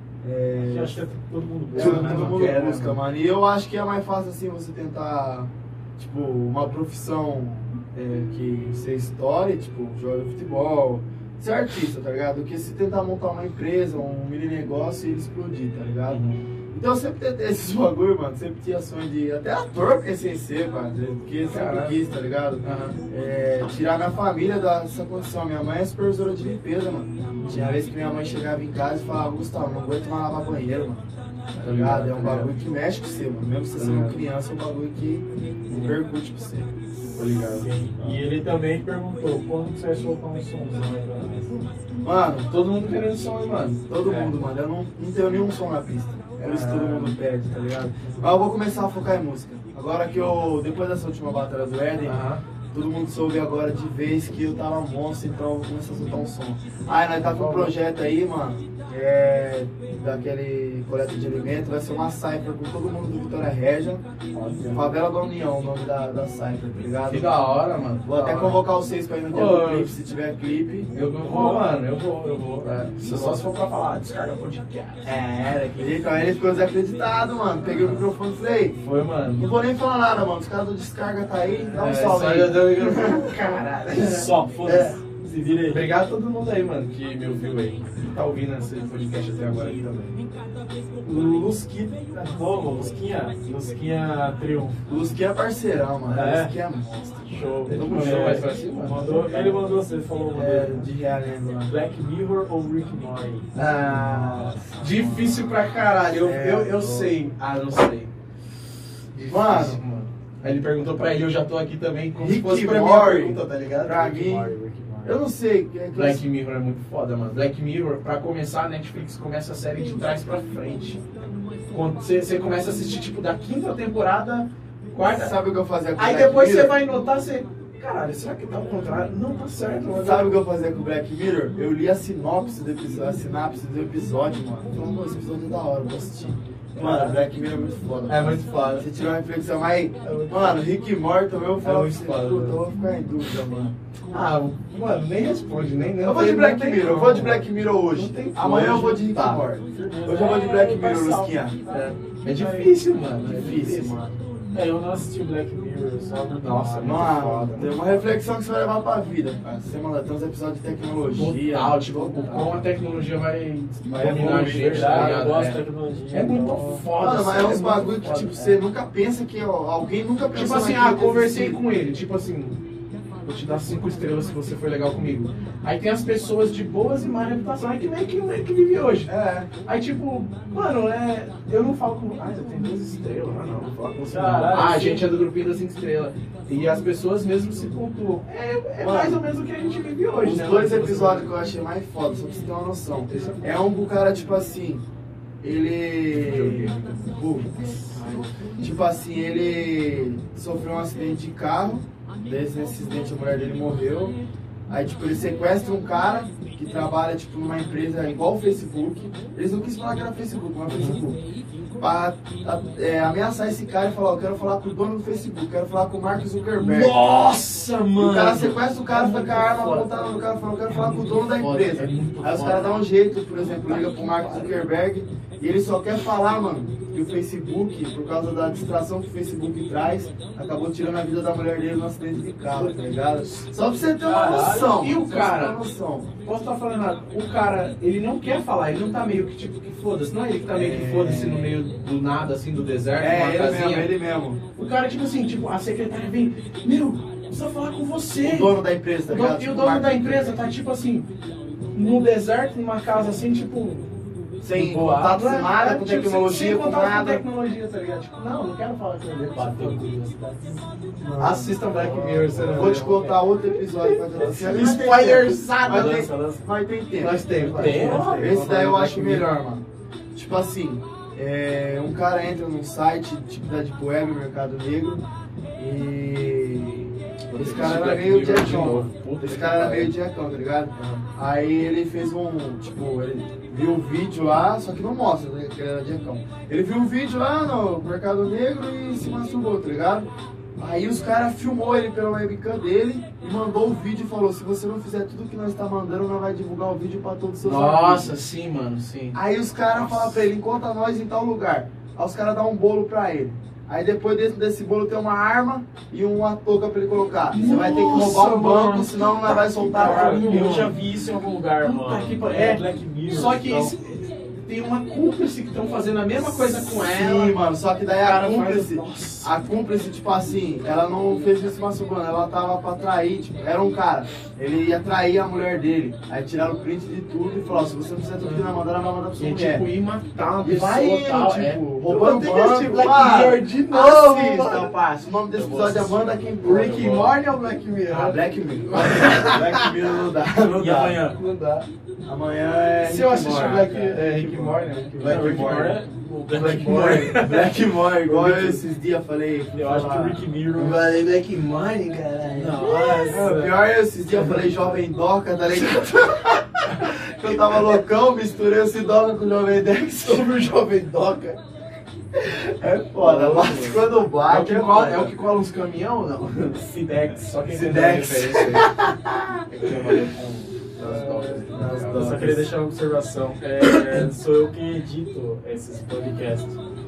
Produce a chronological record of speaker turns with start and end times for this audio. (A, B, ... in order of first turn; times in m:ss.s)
0:00.2-0:01.0 A
0:00.6-0:02.4 B
0:01.7-0:03.0 C
0:01.7-0:36.7 A
0:16.1-0:16.4 C
0:21.5-0:22.0 C
0:22.6-0:23.0 C
0:27.4-0:27.7 C
0:31.6-0:32.5 C
0:33.8-0:34.2 C
0:35.7-0:36.0 C
0:37.1-0:37.6 C
0:37.5-0:41.7 B
0:42.0-0:42.5 A
0:42.5-0:44.4 C
0:43.9-1:04.0 A
0:46.4-0:47.2 C
0:52.0-0:52.4 C
0:57.3-0:57.7 C
1:04.3-1:04.9 B
1:04.7-1:07.3 A
1:07.1-1:08.6 C
1:08.0-1:10.9 A
1:09.3-1:09.9 C
1:10.9-1:15.2 C
1:11.2-1:11.7 B
1:12.4-1:12.6 B
1:13.0-1:13.4 A
1:15.0-1:18.8 A
1:17.7-1:18.0 C
1:18.8-1:19.5 C
1:19.4-1:23.3 A
1:21.8-1:25.0 C
1:23.9-1:25.9 B
1:25.7-1:30.2 C
1:31.0-1:32.0 A
1:32.0-1:34.8 B
1:34.9-1:38.5 A
1:36.1-1:36.6 B
1:37.2-1:40.9 B
1:37.7-1:39.2 C
1:39.1-1:39.6 A
1:40.4-1:41.7 A
1:41.7-1:43.5 B
1:43.6-1:45.4 A
1:43.6-1:48.1 C
1:46.2-1:47.2 A
1:49.1-1:54.1 C
1:49.3-1:49.8 A
1:52.2-1:54.5 A
1:53.9-1:55.2 B
1:55.0-1:56.2 A
1:55.9-2:01.0 C
2:01.7-2:05.4 C
2:05.0-2:06.8 A
2:06.0-2:10.4 C
2:09.9-2:23.8 A
2:16.8-2:17.2 C
2:18.1-2:18.9 C
2:20.0-2:20.6 C
2:21.6-2:22.6 C
2:24.1-2:29.5 C
2:26.0-2:31.6 A
2:29.7-2:31.8 B
2:31.7-2:34.1 C
2:32.4-2:32.7 B
2:33.2-2:34.1 A
2:34.5-2:37.2 B
2:36.4-2:37.8 C
2:36.8-2:42.6 A
2:41.2-2:48.6 C
2:43.9-2:45.3 A
2:44.0-2:46.9 B
2:46.9-2:51.6 A
2:50.3-2:52.6 C
2:53.2-3:11.3 C
2:59.1-2:59.5 A
3:04.1-3:05.1 B
3:08.8-3:09.2 A
3:10.2-3:14.8 A
3:13.1-3:13.4 C
3:15.4-3:17.6 A
3:16.1-3:18.2 C
3:18.0-3:18.3 B
3:18.6-3:24.2 A
3:24.7-3:31.2 A
3:30.7-3:31.0 C
3:31.8-3:37.0 A
3:36.6-3:40.0 C
3:38.0-3:56.1 A
3:40.7-3:42.8 C
3:43.4-3:44.6 C
3:54.0-3:54.8 B
3:54.3-3:55.6 C
3:56.2-4:03.9 C
4:00.5-4:01.6 A
4:03.0-4:04.4 A
4:04.6-4:11.1 C
4:08.2-4:10.4 A
4:11.7-4:13.9 C
4:14.4-4:17.2 A
4:14.5-4:19.9 C
4:19.3-4:20.6 B
4:21.0-4:35.0 A
4:21.2-4:26.1 C
4:21.8-4:23.1 B
4:24.2-4:24.9 B
4:25.6-4:26.4 B
4:27.0-4:29.3 C
4:27.4-4:28.4 B
4:35.6-4:58.1 A
4:37.3-4:39.9 C
4:40.8-4:41.0 C
4:57.4-4:59.2 C
4:59.1-5:10.7 A
4:59.7-5:00.3 C
5:07.3-5:10.8 C
5:09.8-5:13.7 B
5:11.6-5:17.4 C
5:16.5-5:29.7 A
5:18.0-5:19.3 C
5:28.2-5:28.5 C
5:29.2-5:34.8 C
5:30.4-5:37.2 A
5:35.6-5:35.8 C
5:36.4-5:39.8 C
5:37.9-5:41.1 A
5:40.4-5:41.2 B
5:41.1-5:41.7 C
5:42.1-5:45.7 A
5:42.8-5:48.6 C
5:45.0-5:48.0 B
5:46.8-5:50.2 A
5:49.5-5:50.9 B
5:50.6-5:53.2 C
5:52.3-5:53.6 B
5:53.1-6:00.4 A
6:00.0-6:01.4 C
6:02.2-6:05.2 A
6:03.0-6:06.6 C
6:06.5-6:08.0 B
6:07.3-6:08.9 C
6:07.6-6:10.0 A
6:09.5-6:12.3 C
6:10.9-6:16.6 B
6:10.9-6:12.5 A